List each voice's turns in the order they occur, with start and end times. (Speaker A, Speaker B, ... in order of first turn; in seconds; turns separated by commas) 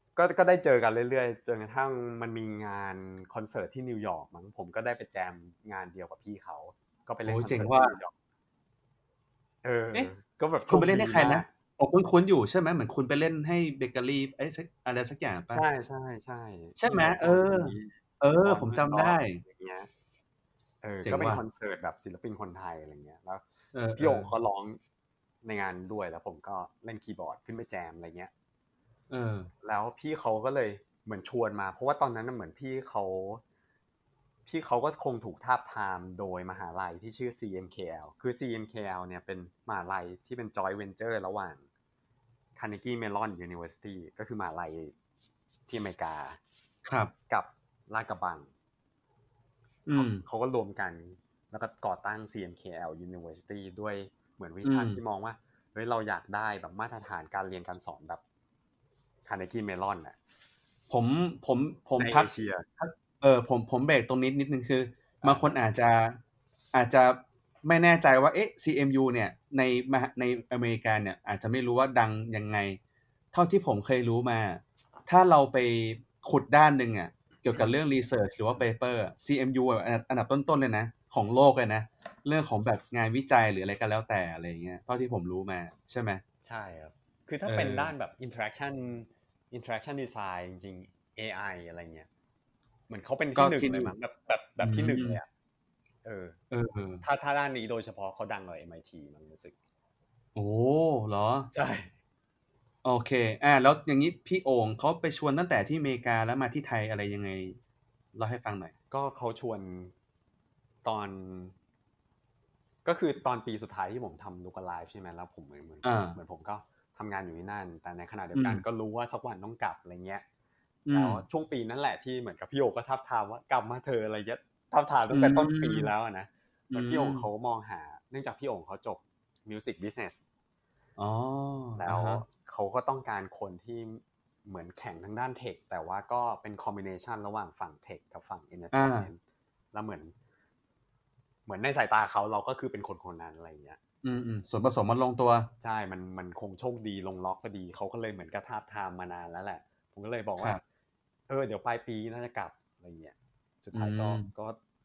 Speaker A: 0.2-8.1, Speaker B: 7.2-8.0, Speaker A: 9.6-11.5, Speaker B: 10.7-15.7, Speaker A: 15.5-19.9, Speaker B: 16.8-19.4, Speaker A: 20.8-23.4, Speaker B: 21.0-21.4, Speaker B: 23.7-24.3, Speaker A: 24.0-24.8, Speaker A: 25.4-28.3, Speaker B: 29.1-29.5, Speaker A: 29.6-33.4, Speaker A: 34.5-41.6, Speaker A: 42.6-44.9, Speaker A: 45.7-46.4, Speaker B: 46.9-47.1, Speaker A: 47.3-48.5, Speaker B: 49.9-50.2, Speaker A: 49.9-58.2, Speaker B: 54.6-55.0, Speaker A: 59.3-60.2, Speaker B: 60.9-66.2, Speaker A: 62.0-62.7, Speaker A: 65.2-65.5, Speaker B: 66.7-72.8, Speaker B: 73.3-86.2, Speaker A: 86.4-92.1, Speaker B: 87.5-87.9, Speaker A: 92.9-95.3, Speaker B: 93.4-93.9, Speaker B: 94.6-95.2, Speaker A: 96.0-96.4, Speaker B: 96.5-97.0, Speaker A: 97.0-99.5, Speaker B: 100.3-101.5, Speaker A: 101.5-101.9, Speaker B: 102.8-107.6, Speaker B: 108.1-108.7, Speaker A: 108.9-109.9, Speaker A: 110.8-111.5, Speaker A: 112.8-120.2, Speaker B: 115.8-116.2, Speaker B: 118.3-118.6, Speaker B: 120.9-121.2, Speaker A: 120.9-130.2, Speaker B: 125.1-125.9, Speaker B: 126.7-127.3, Speaker B: 131.0-132.2, Speaker A: 131.8-139.2, Speaker B: 138.7-139.1, Speaker A: 139.7-140.1, Speaker A: 141.5-143.8, Speaker B: 144.0-145.5, Speaker A: 145.6-150.6, Speaker A: 151.3-154.6, Speaker B: 153.7-154.3